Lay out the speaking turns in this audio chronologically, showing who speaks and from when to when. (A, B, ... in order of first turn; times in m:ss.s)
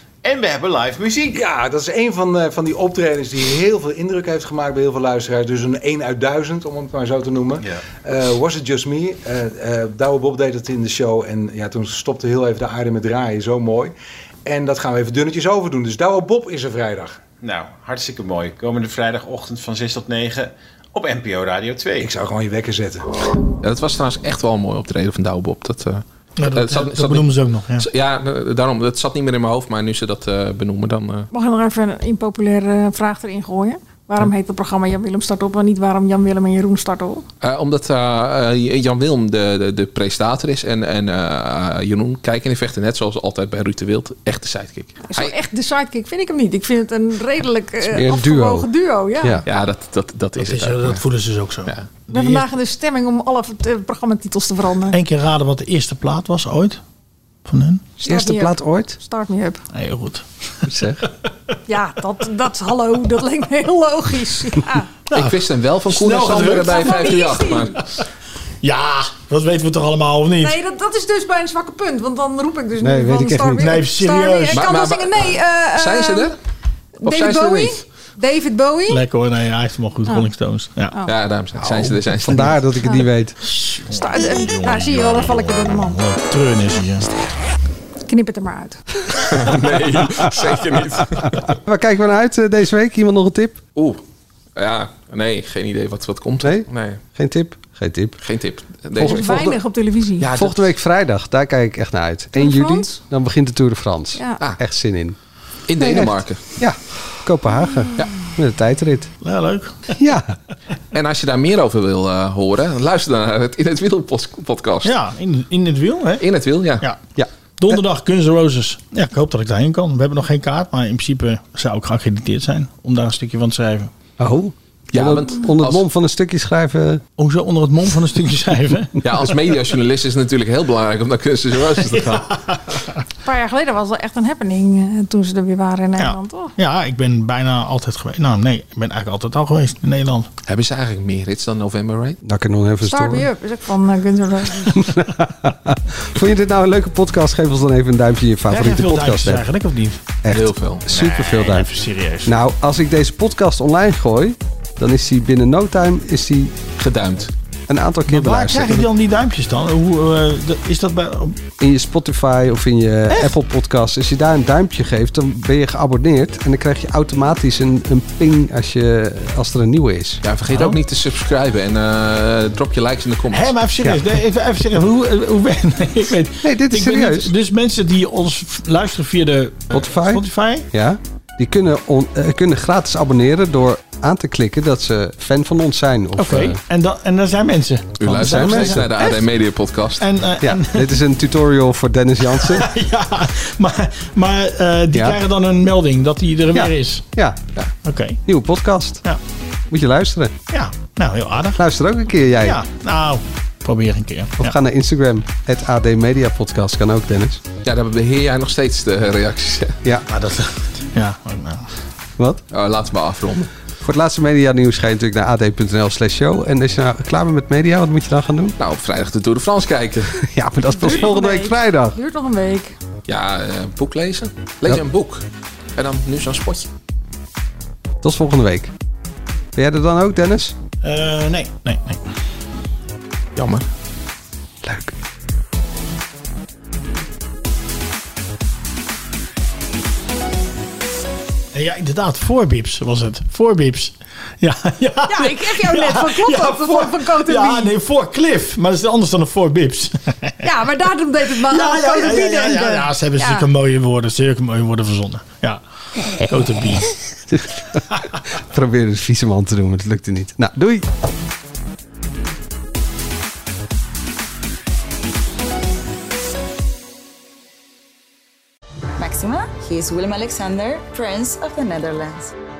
0:00.2-0:01.4 A
0:01.3-0:13.9 B
0:14.4-0:17.2 B
0:17.4-0:22.1 A
0:22.0-0:23.0 B
0:23.6-0:31.3 C
0:26.4-0:27.9 D
0:31.3-0:37.2 E
0:37.4-0:45.3 C
0:45.0-0:49.4 E
0:47.9-0:48.7 F
0:49.5-0:51.0 C
0:50.4-0:52.5 D
0:52.1-0:55.0 E
0:54.9-0:56.8 D
0:57.5-0:57.9 D
0:58.0-0:59.6 E
0:58.0-0:59.0 F
0:59.7-1:00.7 D
1:00.7-1:01.0 F
1:01.7-1:04.9 E
1:05.1-1:07.8 D
1:05.1-1:07.8 C
1:06.3-1:07.7 E
1:08.6-1:10.6 D
1:10.4-1:16.3 E
1:12.8-1:13.8 F
1:13.6-1:14.7 D
1:14.5-1:16.4 C
1:17.0-1:19.0 E
1:17.1-1:17.8 C
1:18.9-1:21.0 D
1:21.0-1:22.6 C
1:21.6-1:21.9 D
1:21.8-1:23.4 F
1:23.4-1:27.1 D
1:23.9-1:26.0 E
1:28.1-1:29.3 E
1:29.2-1:31.6 C
1:31.2-1:33.6 F
1:33.8-1:34.0 C
1:34.6-1:37.0 C
1:36.4-1:38.2 F
1:38.2-1:39.6 C
1:39.0-1:39.2 F
1:39.0-1:40.3 E
1:40.2-1:40.7 C
1:40.4-1:45.2 F
1:42.4-1:43.0 E
1:45.7-1:46.4 C
1:45.8-1:49.1 F
1:49.2-1:50.0 D
1:50.0-1:50.4 F
1:50.9-1:54.9 C
1:54.8-1:56.3 D
1:56.2-1:56.9 C
1:57.2-1:57.8 F
1:57.6-2:03.9 D
2:04.2-2:07.0 F
2:04.9-2:05.8 C
2:07.2-2:09.3 D
2:09.0-2:12.4 C
2:11.8-2:12.9 D
2:13.2-2:16.5 E
2:16.0-2:20.3 D
2:20.4-2:22.2 C
2:22.2-2:23.3 F
2:22.9-2:24.9 E
2:24.6-2:29.4 F
2:28.5-2:30.0 D
2:30.2-2:31.7 F
2:30.3-2:30.9 C
2:30.9-2:32.4 D
2:32.2-2:36.6 F
2:36.8-2:37.3 C
2:37.7-2:38.9 F
2:38.1-2:41.4 D
2:41.6-2:50.2 F
2:43.1-2:43.3 D
2:50.2-2:53.6 C
2:50.5-2:50.8 D
2:53.3-3:00.7 D
2:56.4-2:57.3 F
2:59.7-3:06.6 F
3:06.2-3:09.2 D
3:08.0-3:10.1 C
3:08.1-3:08.9 F
3:10.0-3:11.0 D
3:10.4-3:12.7 F
3:12.2-3:17.1 D
3:16.6-3:17.4 F
3:17.8-3:18.2 D
3:18.3-3:19.0 F
3:19.7-3:20.3 F
3:20.5-3:21.6 D
3:21.6-3:22.6 F
3:22.4-3:24.6 D
3:24.4-3:27.4 F
3:27.6-3:29.8 C
3:30.1-3:31.7 D
3:32.5-3:33.5 C
3:33.8-3:38.6 F
3:38.6-3:40.2 C
3:40.2-3:42.0 F
3:40.7-3:42.8 E
3:43.1-3:45.2 C
3:45.8-3:46.7 C
3:48.0-3:48.7 F
3:49.6-3:50.6 F
3:50.8-3:52.0 D
3:53.4-3:53.7 C
3:54.6-3:54.9 F
4:01.5-4:10.5 D
4:05.1-4:07.7 E
4:10.4-4:13.5 E
4:11.4-4:15.6 D
4:16.3-4:16.9 D
4:17.3-4:17.8 F
4:18.5-4:20.8 F
4:29.0-4:32.3 G